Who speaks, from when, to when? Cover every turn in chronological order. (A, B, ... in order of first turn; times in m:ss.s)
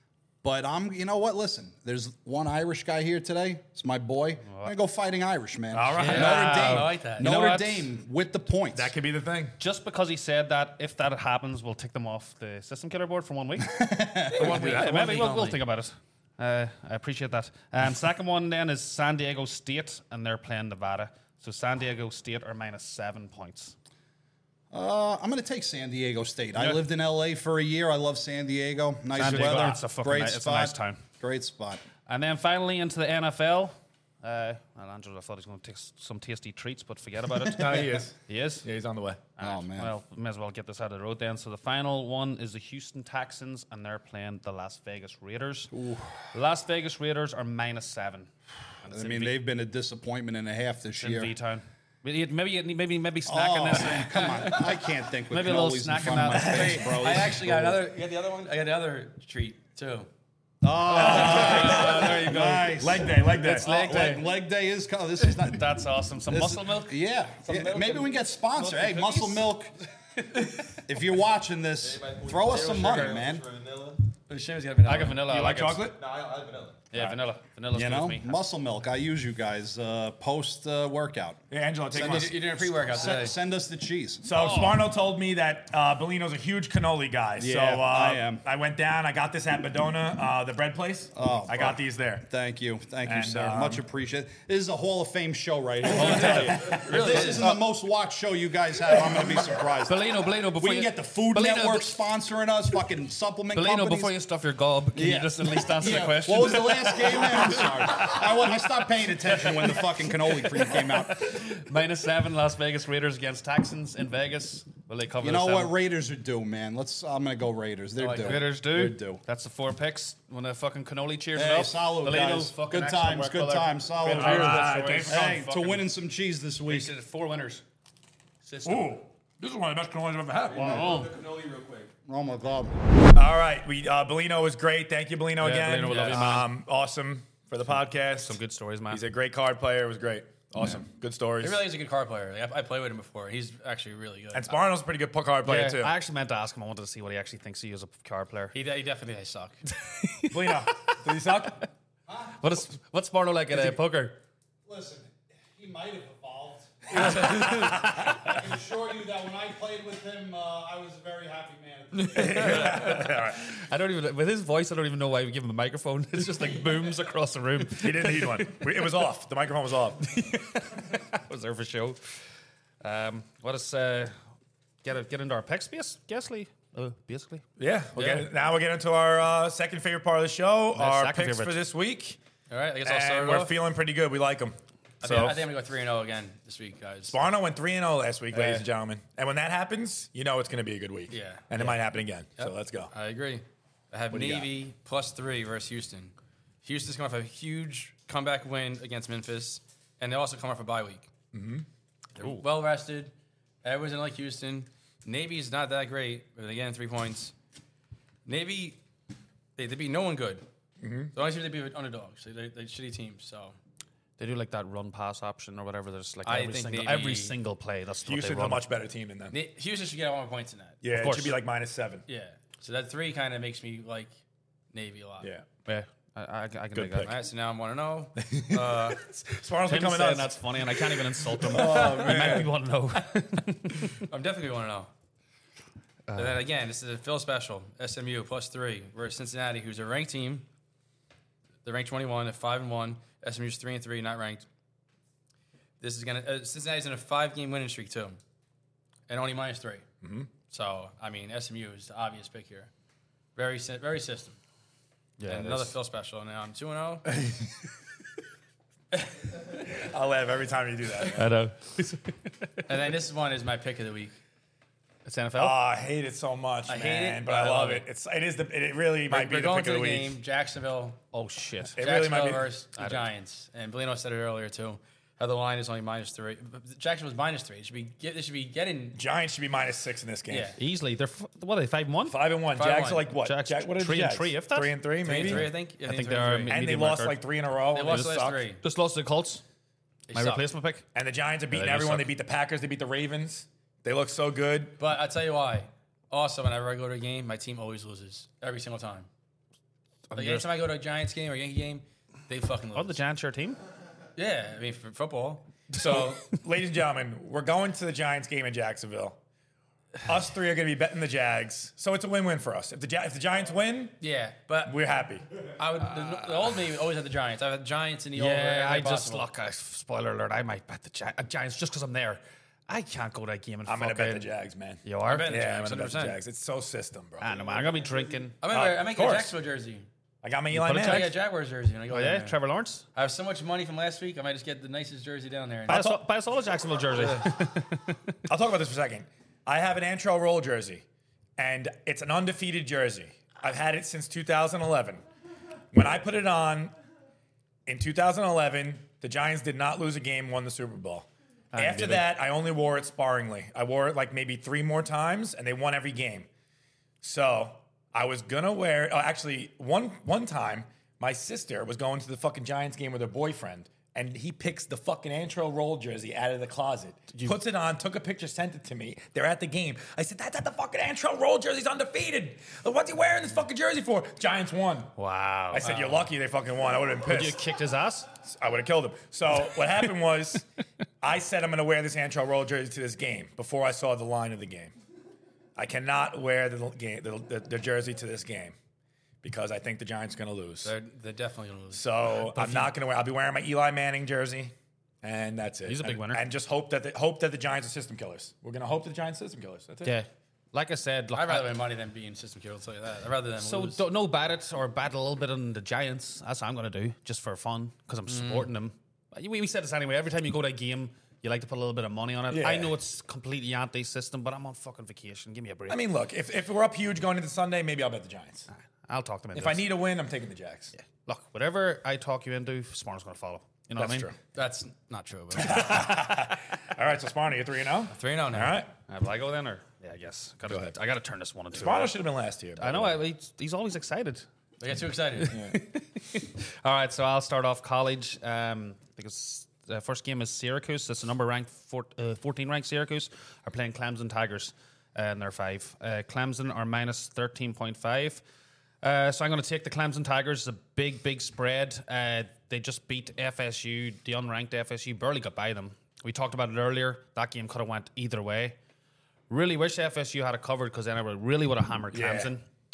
0:00.4-0:08.9 A
0:05.7-0:06.8 B
0:05.9-0:07.9 C
0:06.0-0:07.3 D
0:08.7-0:09.6 B
0:09.6-0:23.7 C
0:13.6-0:14.6 A
0:14.3-0:15.6 D
0:14.4-0:15.0 B
0:24.7-0:31.8 A
0:29.1-0:31.0 C
0:29.2-0:29.7 B
0:32.1-0:38.6 C
0:37.4-0:39.2 B
0:39.4-0:45.7 C
0:39.4-0:39.9 A
0:45.7-0:46.1 A
0:46.3-0:48.3 C
0:48.8-0:49.3 C
0:48.9-0:51.3 A
0:51.0-0:57.3 C
0:53.2-0:57.7 A
0:56.3-1:00.1 D
1:00.6-1:09.7 A
1:00.9-1:04.2 C
1:01.0-1:02.1 B
1:02.7-1:03.7 B
1:05.2-1:07.0 C
1:07.5-1:08.1 D
1:10.8-1:13.4 A
1:11.8-1:14.1 E
1:12.5-1:13.1 D
1:14.3-1:15.3 D
1:14.8-1:15.9 C
1:15.2-1:16.0 B
1:15.8-1:16.9 E
1:16.9-1:18.4 C
1:17.7-1:24.2 A
1:21.5-1:22.4 B
1:21.9-1:23.3 D
1:24.2-1:32.3 B
1:24.3-1:24.8 C
1:27.4-1:28.4 A
1:31.1-1:44.1 A
1:33.0-1:33.8 B
1:35.9-1:36.8 B
1:36.0-1:37.6 C
1:36.1-1:37.5 D
1:39.8-1:42.0 C
1:43.5-1:48.4 C
1:44.9-1:51.4 A
1:49.2-1:55.7 C
1:55.2-1:59.2 A
1:58.0-1:58.4 D
1:58.2-2:05.9 C
2:01.3-2:06.9 A
2:04.0-2:05.4 B
2:06.7-2:07.6 C
2:08.4-2:08.9 C
2:08.6-2:10.8 B
2:10.5-2:11.9 E
2:10.6-2:11.1 C
2:12.0-2:12.8 A
2:13.1-2:18.4 B
2:15.4-2:16.5 C
2:15.9-2:16.2 D
2:18.1-2:19.0 C
2:18.9-2:21.6 B
2:21.4-2:24.6 D
2:24.3-2:25.9 B
2:25.4-2:28.6 C
2:28.5-2:29.7 D
2:29.8-2:31.5 C
2:30.3-2:31.6 B
2:32.1-2:32.4 A
2:32.4-2:34.2 C
2:34.6-2:42.9 A
2:37.0-2:37.9 C
2:37.0-2:38.0 B
2:42.1-2:43.5 B
2:42.1-2:49.0 C
2:47.8-2:50.0 B
2:50.0-2:52.0 C
2:52.8-2:54.1 C
2:54.8-2:57.4 C
2:57.6-3:02.2 B
2:58.0-2:58.3 D
3:00.7-3:01.6 C
3:02.5-3:03.6 D
3:02.8-3:05.3 B
3:05.0-3:07.2 D
3:05.0-3:05.4 C
3:07.1-3:12.9 B
3:08.3-3:08.7 C
3:11.1-3:11.8 D
3:12.4-3:21.1 D
3:14.1-3:14.4 B
3:21.3-3:21.6 B
3:22.2-3:23.1 D
3:23.6-3:27.3 D
3:28.2-3:28.8 D
3:29.6-3:30.4 D
3:30.8-3:31.1 B
3:31.1-3:33.6 D
3:34.2-3:38.6 C
3:36.2-3:37.3 D
3:38.0-3:39.4 B
3:39.3-3:40.8 D
3:40.8-3:42.0 B
3:40.9-3:41.4 C
3:42.1-3:44.1 D
3:44.7-3:45.3 D
3:45.2-3:45.4 B
3:45.6-3:47.1 C
3:46.7-3:47.1 B
3:47.0-3:49.0 D
3:48.2-3:52.5 B
3:49.6-3:54.0 C
3:54.0-3:54.9 D
3:56.1-3:56.4 C
3:56.1-4:00.5 D
4:01.6-4:04.4 D
4:05.8-4:08.2 D
4:09.1-4:09.8 D
4:10.0-4:10.3 B
4:10.5-4:12.7 D
4:13.4-4:14.4 D
4:15.2-4:15.7 C
4:15.2-4:17.2 D
4:19.6-4:21.3 B
4:21.1-4:22.6 C
4:22.7-4:24.1 D
4:25.0-4:25.6 C
4:25.4-4:30.2 B
4:26.6-4:27.8 D
4:29.1-4:31.0 D
4:31.1-4:31.8 C
4:31.8-4:32.5 B
4:31.8-4:39.0 D
4:32.8-4:33.0 C
4:38.9-4:40.5 B
4:40.3-4:40.6 D
4:40.6-4:42.2 C
4:42.1-4:45.5 B
4:42.5-4:43.1 D
4:43.1-4:47.2 C
4:45.0-4:46.6 D
4:46.5-4:48.4 B
4:47.7-4:48.6 D
4:47.8-4:49.4 C
4:50.1-4:50.4 D
4:50.1-4:50.8 C
4:50.9-4:54.8 B
4:51.5-4:52.1 C
4:54.8-4:59.1 D
5:00.1-5:00.5 C
5:00.1-5:03.0 D
5:02.7-5:03.6 C
5:04.2-5:06.1 D
5:05.8-5:09.2 B
5:10.0-5:14.0 B
5:14.0-5:14.8 D
5:14.6-5:15.3 B
5:15.5-5:19.2 D
5:18.2-5:24.3 C
5:23.6-5:27.3 B
5:24.8-5:25.4 C
5:25.0-5:26.2 D
5:27.2-5:28.4 C
5:28.4-5:29.9 D
5:28.5-5:29.3 B
5:30.2-5:31.1 B
5:30.5-5:31.2 C
5:30.8-5:32.4 D
5:31.9-5:32.8 C
5:32.9-5:35.8 D
5:35.7-5:36.0 B
5:35.7-5:38.2 C
5:38.3-5:40.8 B
5:41.4-5:45.0 B
5:45.7-5:46.7 B
5:47.6-5:56.3 B
5:51.5-5:52.1 C
5:57.0-6:14.9 B
6:15.0-6:16.0 C
6:15.5-6:17.4 B
6:15.6-6:16.0 D
6:17.0-6:18.1 C
6:18.2-6:20.4 B
6:21.0-6:24.7 B
6:25.6-6:28.6 B
6:29.2-6:30.7 B
6:30.6-6:32.0 D
6:31.7-6:39.9 B
6:32.4-6:32.7 C
6:35.6-6:36.2 C
6:39.8-6:41.6 C
6:41.1-6:43.8 D
6:43.4-6:55.8 C
6:48.1-6:48.5 D
6:52.3-6:52.7 B
6:55.7-6:58.5 B
6:58.9-6:59.7 C
6:59.3-7:00.7 B
7:00.7-7:04.1 C
7:03.8-7:04.2 B
7:04.3-7:05.8 D
7:05.4-7:08.7 B
7:07.9-7:08.6 D
7:08.9-7:12.0 C
7:11.5-7:13.0 B
7:12.6-7:14.2 C
7:14.6-7:15.4 D
7:15.2-7:28.2 C
7:15.3-7:15.6 B
7:28.8-7:38.6 C
7:39.3-7:42.4 C
7:41.9-7:42.3 B